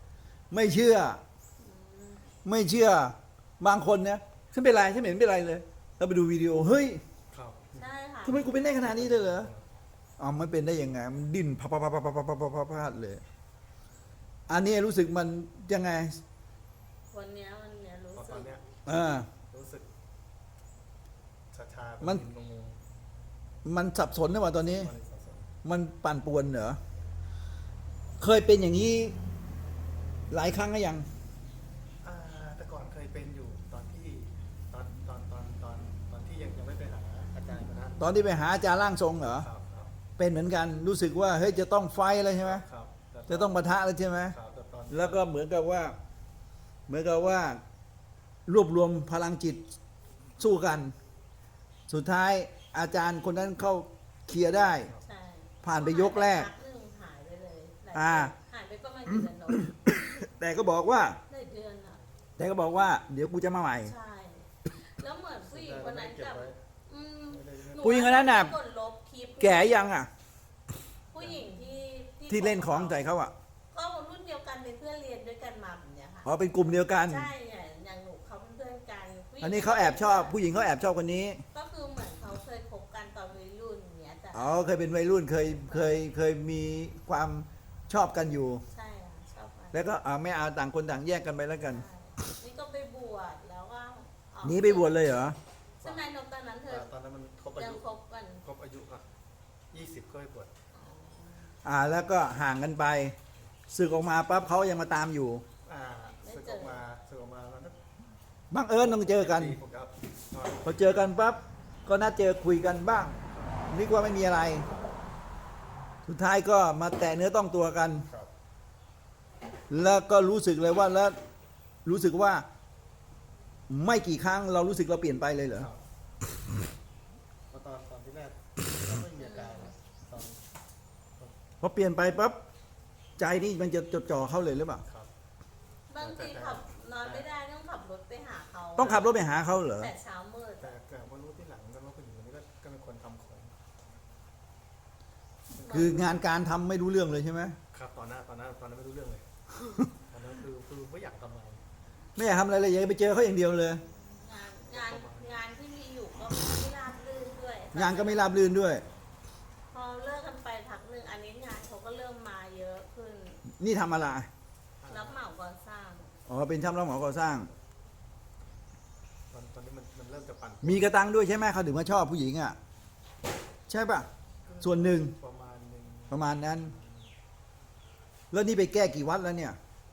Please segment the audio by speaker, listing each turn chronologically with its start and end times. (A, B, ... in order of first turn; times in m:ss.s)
0:00.5-0:01.2 A
0:01.6-0:02.2 B
0:02.4-0:07.0 A
0:07.3-0:09.7 C
0:07.8-0:08.4 B
0:08.2-0:09.5 A
0:10.2-0:13.2 A
0:14.5-0:16.2 A
0:17.1-0:18.5 B
0:18.1-0:18.6 C
0:18.9-0:19.3 A
0:19.5-0:19.9 C
0:21.5-0:22.8 C
0:22.0-0:22.3 A
0:23.6-0:24.9 A
0:24.8-0:25.5 C
0:25.6-0:26.8 A
0:28.2-0:29.2 A
0:30.3-0:31.1 A
0:32.0-0:38.1 C
0:38.0-0:39.5 A
0:39.3-0:40.0 C
0:40.2-0:42.6 A
0:42.4-0:43.6 C
0:43.3-0:44.4 A
0:44.3-0:45.2 C
0:44.9-0:46.0 A
0:46.9-0:47.6 A
0:48.5-0:49.7 A
0:50.4-0:51.0 A
0:51.9-0:54.9 A
0:54.8-0:55.0 C
0:55.0-1:00.2 B
0:55.6-0:56.5 A
0:57.9-0:58.3 A
0:59.1-1:01.2 A
1:01.3-1:02.0 B
1:02.4-1:03.9 A
1:03.8-1:09.7 B
1:05.5-1:06.6 C
1:07.3-1:08.0 C
1:07.8-1:08.5 A
1:09.4-1:10.1 A
1:11.1-1:13.0 B
1:11.2-1:11.5 C
1:12.3-1:13.3 A
1:13.7-1:16.3 B
1:16.2-1:17.3 A
1:17.0-1:20.4 B
1:19.4-1:21.4 A
1:21.5-1:24.7 B
1:24.3-1:28.6 A
1:25.5-1:26.0 B
1:28.7-1:29.8 B
1:29.7-1:31.8 A
1:31.6-1:34.9 B
1:34.4-1:35.4 A
1:35.8-1:36.9 B
1:36.7-1:37.8 C
1:37.6-1:38.4 B
1:38.4-1:39.1 C
1:39.7-1:40.5 C
1:40.7-1:41.5 B
1:41.6-1:43.2 A
1:43.7-1:45.4 A
1:45.7-1:47.8 C
1:46.2-1:46.8 B
1:48.5-1:49.6 A
1:48.8-1:50.8 C
1:50.6-1:53.1 A
1:53.7-1:54.7 A
1:56.1-1:58.1 A
1:59.7-2:01.2 A
2:01.8-2:02.5 A
2:03.7-2:05.7 A
2:05.6-2:05.8 C
2:07.5-2:10.4 C
2:09.2-2:09.7 B
2:11.6-2:12.4 A
2:13.2-2:14.8 A
2:14.8-2:15.1 C
2:15.9-2:19.2 B
2:16.0-2:17.3 C
2:18.8-2:19.9 A
2:18.8-2:19.1 C
2:19.7-2:20.7 B
2:20.6-2:23.5 C
2:25.6-2:26.1 B
2:25.7-2:27.6 A
2:27.7-2:29.2 C
2:30.1-2:31.6 C
2:32.2-2:33.8 A
2:34.1-2:38.4 B
2:34.7-2:35.3 C
2:37.7-2:38.8 A
2:39.7-2:43.4 B
2:43.5-2:44.3 A
2:44.8-2:45.2 C
2:44.9-2:46.1 B
2:46.3-2:47.5 A
2:49.3-2:50.8 C
2:50.6-2:52.6 A
2:53.7-2:54.1 A
2:54.4-2:57.1 C
2:54.6-2:55.2 A
2:56.1-2:56.7 A
2:58.3-2:59.6 A